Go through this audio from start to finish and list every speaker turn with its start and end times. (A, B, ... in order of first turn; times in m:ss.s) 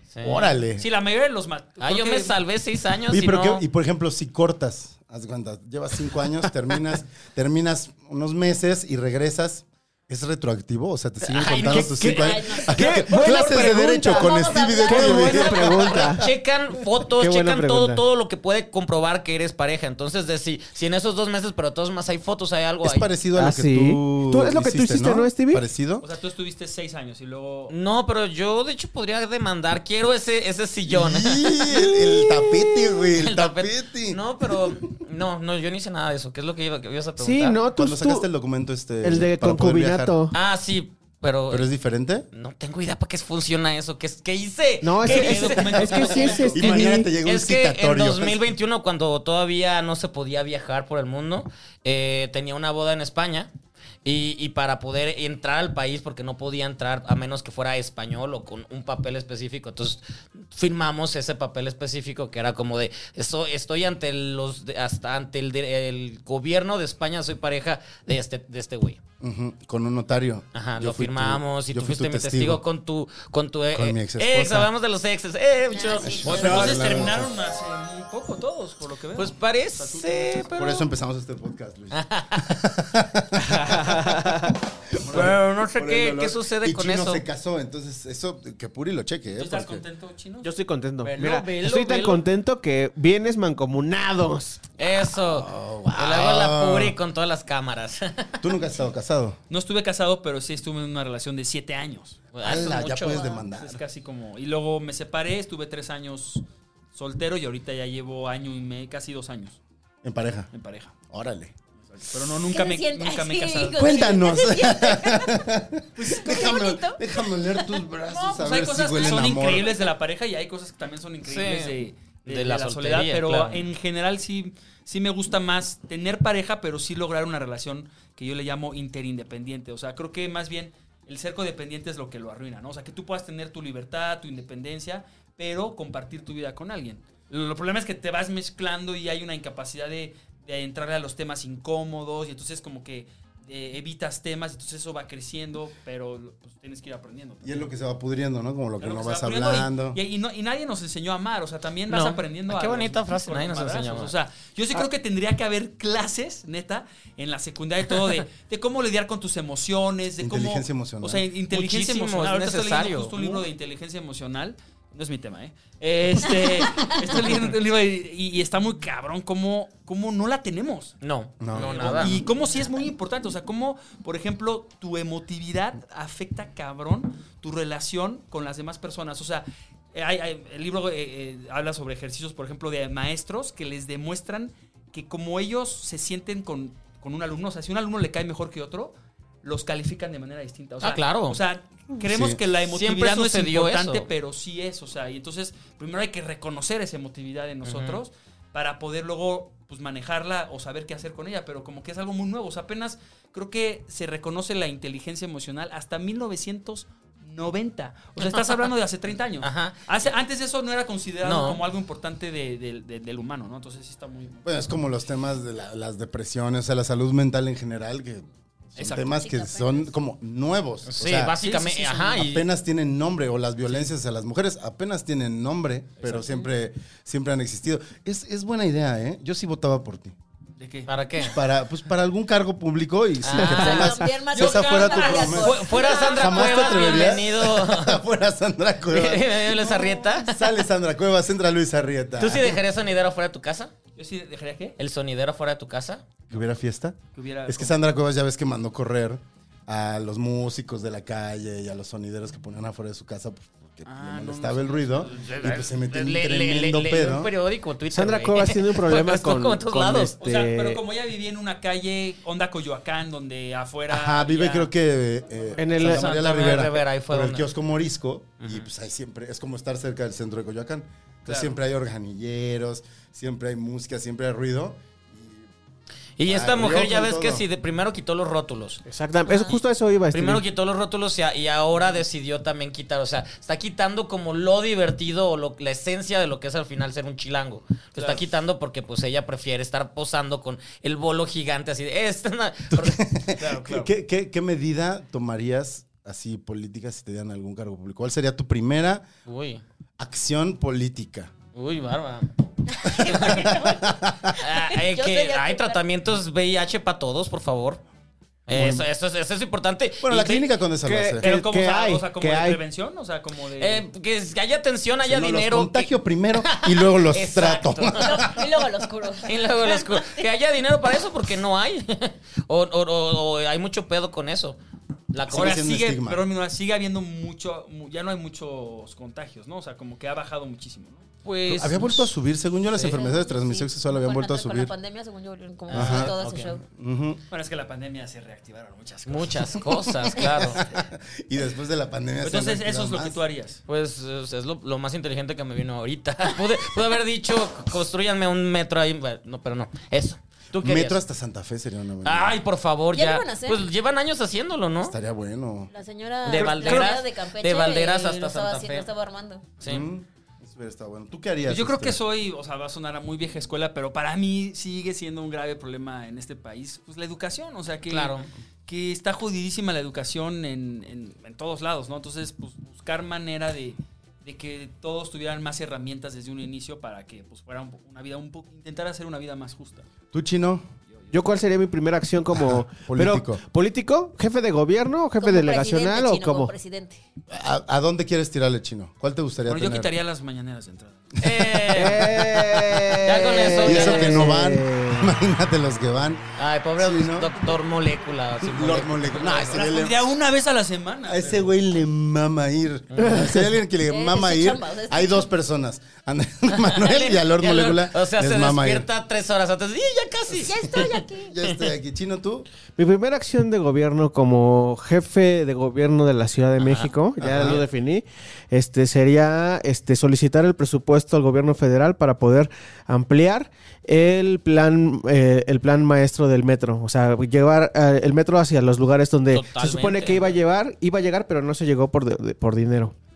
0:00.1-0:00.6 A
0:00.2-0:00.8 B
0:00.3-0:02.4 C
0:01.8-0:03.6 A
0:03.1-0:16.3 B
0:11.3-0:14.0 A
0:11.3-0:16.3 D
0:12.2-0:15.9 E
0:15.1-0:23.1 A
0:17.2-0:18.0 D
0:22.8-0:26.1 B
0:23.4-0:25.6 D
0:26.0-0:27.7 C
0:27.7-0:31.7 A
0:30.9-0:34.8 B
0:33.1-0:37.6 A
0:37.2-0:38.3 D
0:37.7-0:40.2 B
0:39.0-0:40.3 D
0:40.3-0:41.7 A
0:41.5-0:42.3 B
0:42.3-0:53.5 A
0:44.8-0:47.1 D
0:45.0-0:46.6 C
0:46.5-0:48.5 B
0:54.0-1:09.0 A
1:09.2-1:12.6 B
1:10.5-1:17.0 A
1:13.7-1:14.7 B
1:15.7-1:16.5 E
1:16.0-1:17.3 B
1:16.2-1:20.5 C
1:19.1-1:20.9 A
1:20.5-1:29.8 B
1:21.9-1:22.6 A
1:23.5-1:24.5 D
1:25.0-1:25.4 C
1:25.1-1:27.2 A
1:29.3-1:30.5 C
1:30.4-1:34.6 D
1:31.0-1:32.2 A
1:34.8-1:38.6 A
1:35.2-1:37.0 B
1:38.4-1:39.4 B
1:39.5-1:42.2 C
1:42.3-1:43.3 A
1:42.4-1:43.8 B
1:43.6-1:49.6 C
1:50.0-1:50.5 B
1:50.5-1:50.9 C
1:51.1-1:51.5 B
1:51.8-1:54.1 C
1:52.5-1:59.9 E
1:53.8-1:59.7 B
1:58.2-2:27.7 C
2:01.2-2:03.7 A
2:27.4-2:30.0 B
2:28.8-2:51.0 C
2:31.9-2:34.1 A
2:40.2-2:41.2 B
2:41.5-2:43.4 A
2:51.0-2:52.2 A
2:51.4-2:52.1 B
2:51.5-3:34.4 C
3:10.8-3:11.4 A
3:12.0-3:12.4 B
3:12.7-3:14.1 A
3:17.6-3:18.0 A
3:29.4-3:29.8 A
3:31.2-3:31.6 A
3:34.4-3:41.3 B
3:38.8-3:39.2 C
3:39.0-3:39.9 E
3:40.9-3:42.5 A
3:41.4-3:42.2 C
3:42.2-3:50.2 B
3:50.6-3:50.9 C
3:50.9-3:51.4 A
3:51.3-3:59.4 B
3:53.2-3:54.0 A
3:53.4-3:56.2 E
3:54.3-3:57.1 C
3:55.2-3:58.0 A
3:58.9-4:00.4 A
3:59.5-4:00.2 C
4:00.2-4:02.6 B
4:02.2-4:03.7 A
4:04.0-4:04.8 C
4:04.8-4:06.1 A
4:06.3-4:17.3 B
4:07.1-4:07.8 C
4:13.8-4:15.4 C
4:15.1-4:20.2 A
4:17.9-4:20.8 D
4:20.2-4:24.7 C
4:23.9-4:35.5 B
4:25.6-4:26.1 D
4:25.8-4:27.5 A
4:28.4-4:28.7 A
4:31.2-4:31.5 C
4:36.2-4:38.8 A
4:36.2-4:37.4 B
4:38.8-4:40.4 D
4:39.3-4:39.5 E
4:40.1-4:53.1 A
4:47.9-4:48.2 C
4:52.7-4:59.1 B
4:53.4-4:53.9 C
4:59.2-4:59.6 A
5:00.0-5:01.3 B
5:01.5-5:02.3 A
5:02.7-5:05.8 E
5:02.8-5:03.5 A
5:03.0-5:04.3 B
5:04.4-5:07.8 A
5:08.5-5:10.5 A
5:08.5-5:08.8 B
5:10.0-5:11.3 B
5:10.8-5:12.6 D
5:11.2-5:13.8 C
5:13.6-5:18.3 A
5:15.0-5:18.4 B
5:18.0-5:20.1 E
5:19.2-5:24.6 A
5:25.1-5:25.7 A
5:25.3-5:26.2 B
5:25.3-5:31.1 C
5:31.2-5:32.1 A
5:31.5-5:34.7 B
5:32.8-5:36.6 E
5:35.7-5:36.6 A
5:35.7-5:37.2 B
5:37.3-5:39.6 C
5:39.0-5:40.6 A
5:40.1-5:43.2 B
5:42.2-5:43.6 C
5:43.7-5:51.0 A
5:50.6-5:52.4 B
5:52.0-5:55.0 A
5:52.9-5:53.6 E
5:54.8-5:55.7 B
5:55.7-5:59.4 E
5:56.2-5:58.9 A
5:56.3-5:56.9 C
5:59.6-5:59.9 A
5:59.6-6:02.0 B
6:01.4-6:19.8 C
6:07.9-6:08.3 A
6:20.1-6:20.7 B
6:21.1-6:26.5 D
6:22.3-6:23.4 B
6:25.2-6:27.0 E
6:27.3-6:29.9 B
6:29.5-6:31.2 C
6:31.2-6:32.3 A
6:31.2-6:32.5 B
6:31.7-6:35.1 D
6:33.0-6:34.3 A
6:33.6-6:37.4 B
6:36.4-6:39.6 A
6:38.4-6:40.1 B
6:39.4-6:41.5 C
6:41.0-6:48.9 B
6:42.9-6:43.3 A
6:43.0-6:43.4 D
6:43.8-6:45.3 E
6:46.5-6:51.7 A
6:50.4-6:51.4 E
6:50.4-6:52.5 B
6:52.8-7:12.9 D
6:56.6-6:57.6 A
6:57.2-6:57.6 B
7:09.3-7:10.4 A